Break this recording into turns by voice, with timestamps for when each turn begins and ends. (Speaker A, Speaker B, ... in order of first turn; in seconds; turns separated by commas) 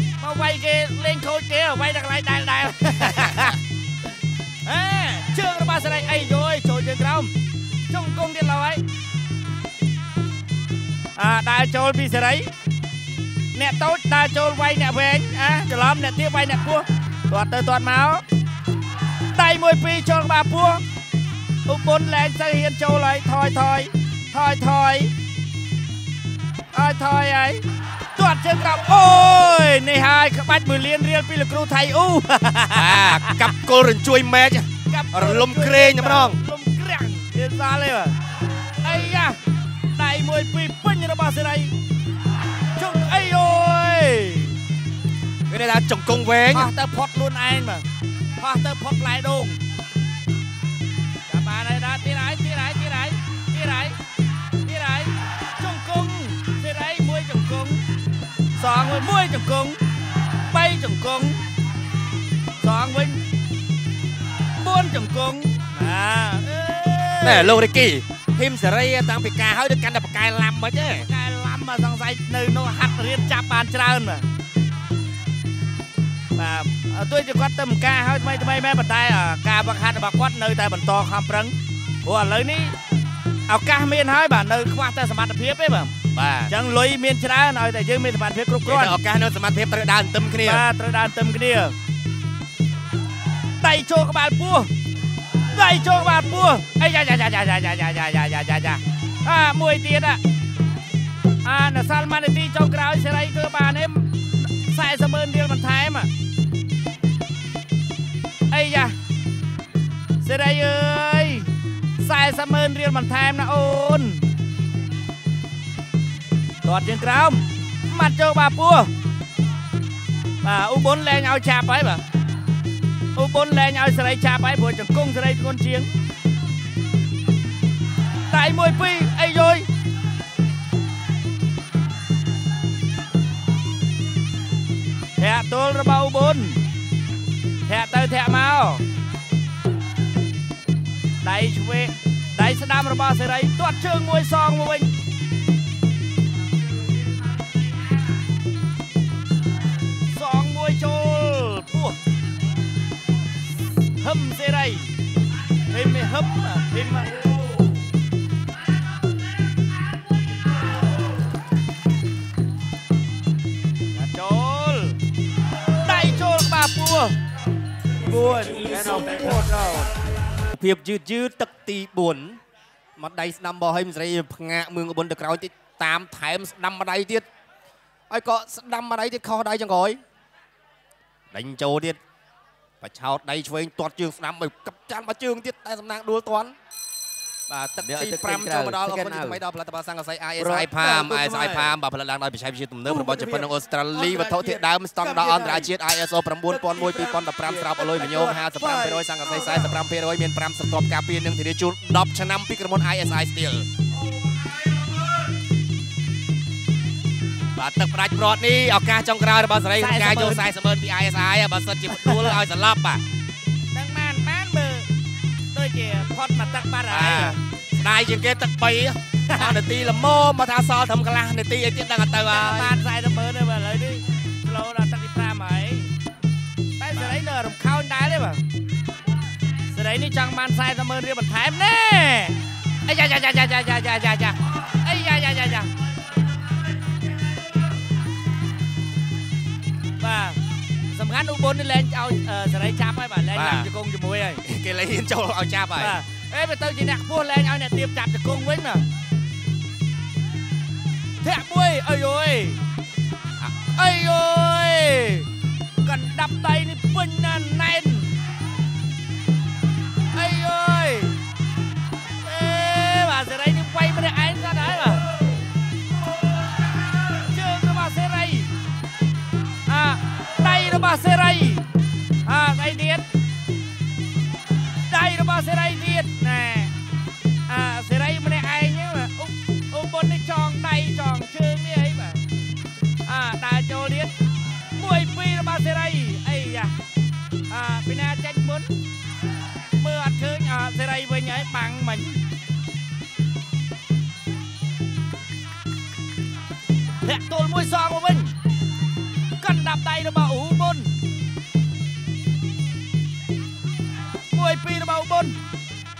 Speaker A: 0.2-3.6, Speaker B: 3.0-3.5, Speaker A: 4.6-7.3, Speaker A: 7.9-8.8, Speaker A: 11.2-12.5, Speaker A: 13.5-18.2, Speaker A: 19.3-20.8, Speaker A: 21.6-25.1, Speaker A: 26.7-27.6, Speaker A: 28.1-33.5, Speaker B: 32.7-36.4, Speaker A: 34.9-38.1, Speaker A: 38.8-39.4, Speaker A: 39.9-41.7, Speaker A: 42.8-44.5, Speaker B: 45.5-46.7, Speaker A: 46.5-47.9, Speaker A: 48.4-49.6, Speaker A: 51.3-54.0, Speaker A: 54.6-57.8, Speaker A: 58.5-59.8, Speaker A: 60.5-61.4, Speaker A: 62.6-63.2, Speaker A: 64.6-67.6, Speaker B: 67.2-71.1, Speaker A: 71.0-74.2, Speaker A: 76.3-82.7, Speaker A: 83.5-85.9, Speaker B: 86.1-86.5, Speaker A: 86.5-89.0, Speaker B: 88.6-90.7, Speaker A: 90.4-91.7, Speaker A: 93.6-94.7, Speaker A: 95.5-100.2, Speaker A: 101.4-106.1, Speaker A: 108.5-109.0, Speaker A: 110.2-114.2, Speaker A: 116.6-118.9, Speaker A: 120.4-122.0, Speaker A: 123.1-125.9, Speaker A: 128.3-129.7, Speaker A: 135.2-136.6, Speaker A: 137.7-138.8, Speaker A: 141.2-144.9, Speaker A: 150.1-152.0, Speaker A: 154.0-154.9, Speaker A: 155.7-157.2, Speaker A: 163.9-165.0, Speaker A: 165.8-167.2, Speaker C: 168.0-169.9, Speaker B: 170.5-172.4, Speaker B: 173.0-177.2, Speaker B: 178.1-180.0, Speaker B: 181.3-182.0, Speaker B: 182.8-186.5, Speaker B: 187.5-203.7, Speaker C: 187.8-189.4, Speaker C: 190.4-191.8, Speaker C: 192.8-195.7, Speaker C: 196.5-199.8, Speaker B: 207.6-213.0, Speaker A: 209.8-210.4, Speaker A: 211.9-212.3, Speaker A: 213.7-214.9, Speaker A: 215.5-217.4, Speaker B: 216.9-222.8, Speaker A: 219.3-219.6, Speaker A: 222.3-225.9, Speaker A: 226.8-228.4, Speaker B: 226.9-227.2, Speaker A: 229.7-235.7, Speaker A: 240.0-240.4, Speaker A: 240.9-244.4, Speaker B: 243.3-243.7, Speaker B: 244.4-246.0, Speaker A: 245.8-248.9, Speaker A: 251.2-252.6, Speaker A: 253.7-255.3, Speaker A: 255.8-258.2, Speaker A: 260.1-261.1, Speaker A: 262.2-265.1, Speaker A: 267.2-268.5, Speaker A: 269.6-271.7, Speaker A: 272.2-273.1, Speaker A: 274.9-276.7, Speaker A: 277.5-282.2, Speaker A: 283.1-284.1, Speaker A: 284.8-286.7, Speaker A: 287.5-288.7, Speaker A: 289.8-292.2, Speaker A: 297.0-298.3, Speaker A: 299.4-301.0, Speaker A: 304.3-305.4